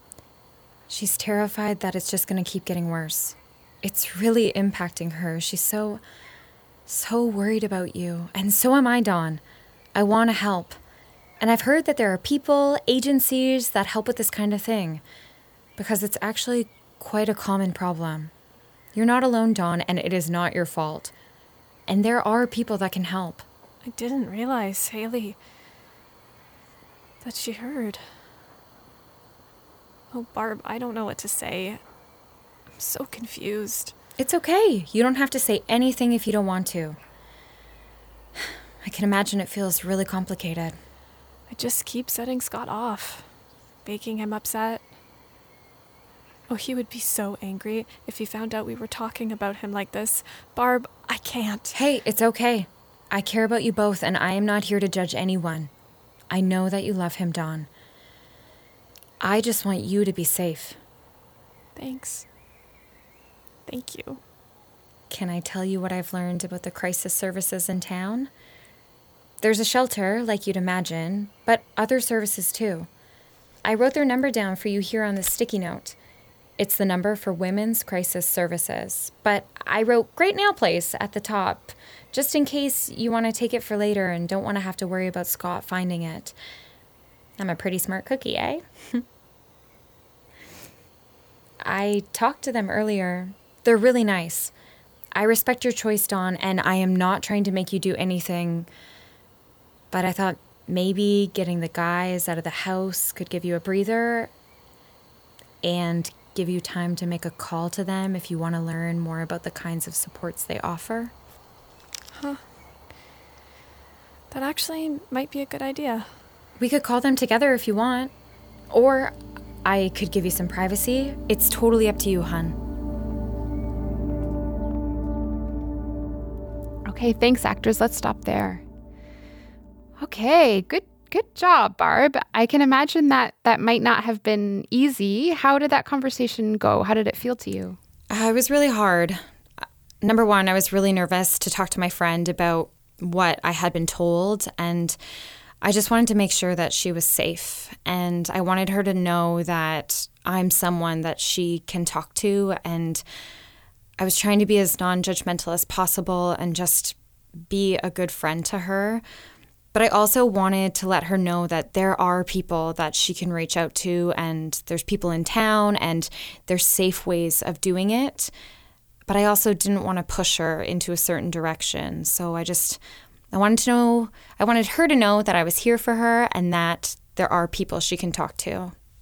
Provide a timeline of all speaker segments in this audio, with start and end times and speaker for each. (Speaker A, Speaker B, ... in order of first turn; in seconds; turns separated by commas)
Speaker A: 0.9-6.0, Speaker A: 6.9-9.4, Speaker A: 9.9-10.8, Speaker A: 11.4-15.0, Speaker A: 15.8-18.3, Speaker A: 18.9-21.1, Speaker A: 21.9-23.4, Speaker B: 23.8-25.4, Speaker B: 27.2-28.1, Speaker B: 30.1-31.8, Speaker B: 32.8-33.9, Speaker A: 34.2-37.0, Speaker A: 38.8-40.8, Speaker B: 41.5-43.3, Speaker B: 43.8-44.9, Speaker B: 46.5-51.8, Speaker A: 51.7-55.7, Speaker A: 56.3-57.7, Speaker A: 59.2-60.8, Speaker B: 61.8-62.2, Speaker B: 63.6-64.2, Speaker A: 65.1-68.3, Speaker A: 69.4-72.9, Speaker A: 73.6-76.0, Speaker A: 76.6-86.3, Speaker A: 87.4-89.0, Speaker A: 91.6-94.5, Speaker A: 95.1-98.7, Speaker A: 99.9-104.3, Speaker A: 105.6-111.1, Speaker B: 112.1-112.4, Speaker B: 114.3-116.1, Speaker A: 116.6-118.1, Speaker A: 118.7-122.6, Speaker C: 126.8-128.6, Speaker C: 130.0-137.8, Speaker A: 138.1-139.2, Speaker A: 140.0-145.0, Speaker A: 145.6-153.0, Speaker A: 154.0-156.9, Speaker A: 157.5-159.0, Speaker A: 159.7-168.3, Speaker A: 169.1-172.8, Speaker A: 173.3-178.7